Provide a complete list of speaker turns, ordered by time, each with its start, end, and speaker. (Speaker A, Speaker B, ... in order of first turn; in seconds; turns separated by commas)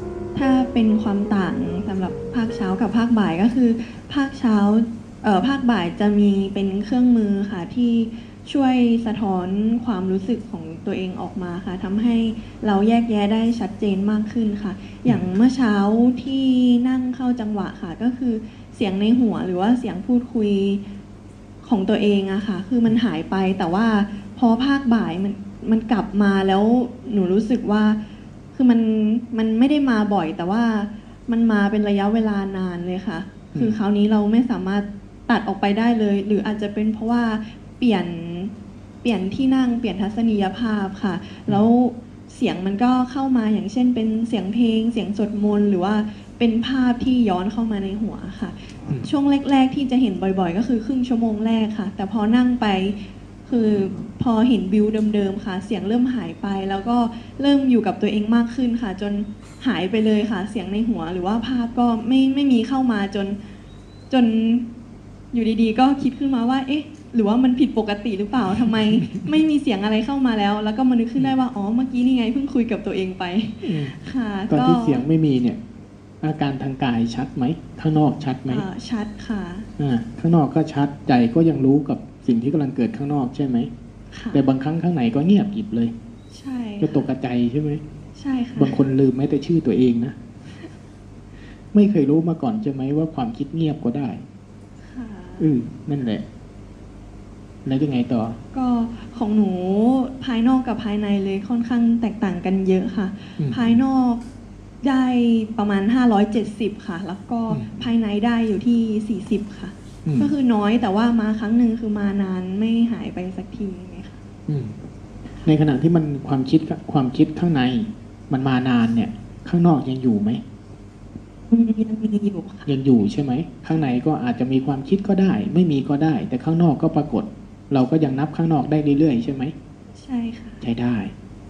Speaker A: 0.3-20.8, Speaker A: 21.6-38.5, Speaker B: 33.5-33.8, Speaker A: 39.0-63.4, Speaker A: 64.1-64.6, Speaker A: 65.3-75.0, Speaker B: 68.6-69.3, Speaker B: 73.6-73.9, Speaker B: 74.5-75.6, Speaker B: 76.2-78.7, Speaker A: 78.5-79.7, Speaker B: 79.8-83.7, Speaker A: 84.1-84.4, Speaker B: 84.3-85.9, Speaker A: 86.3-87.1, Speaker B: 86.8-87.8, Speaker A: 88.2-88.8, Speaker B: 88.6-90.2, Speaker B: 91.7-94.2, Speaker A: 94.8-95.5, Speaker B: 95.4-96.2, Speaker B: 97.6-98.4, Speaker A: 98.5-104.2, Speaker B: 103.4-103.8, Speaker A: 104.8-114.2, Speaker B: 107.5-107.9, Speaker B: 110.0-110.3, Speaker B: 114.5-114.8, Speaker B: 115.4-120.4, Speaker A: 121.5-122.7, Speaker B: 122.7-129.5, Speaker A: 129.9-130.6, Speaker B: 130.6-131.1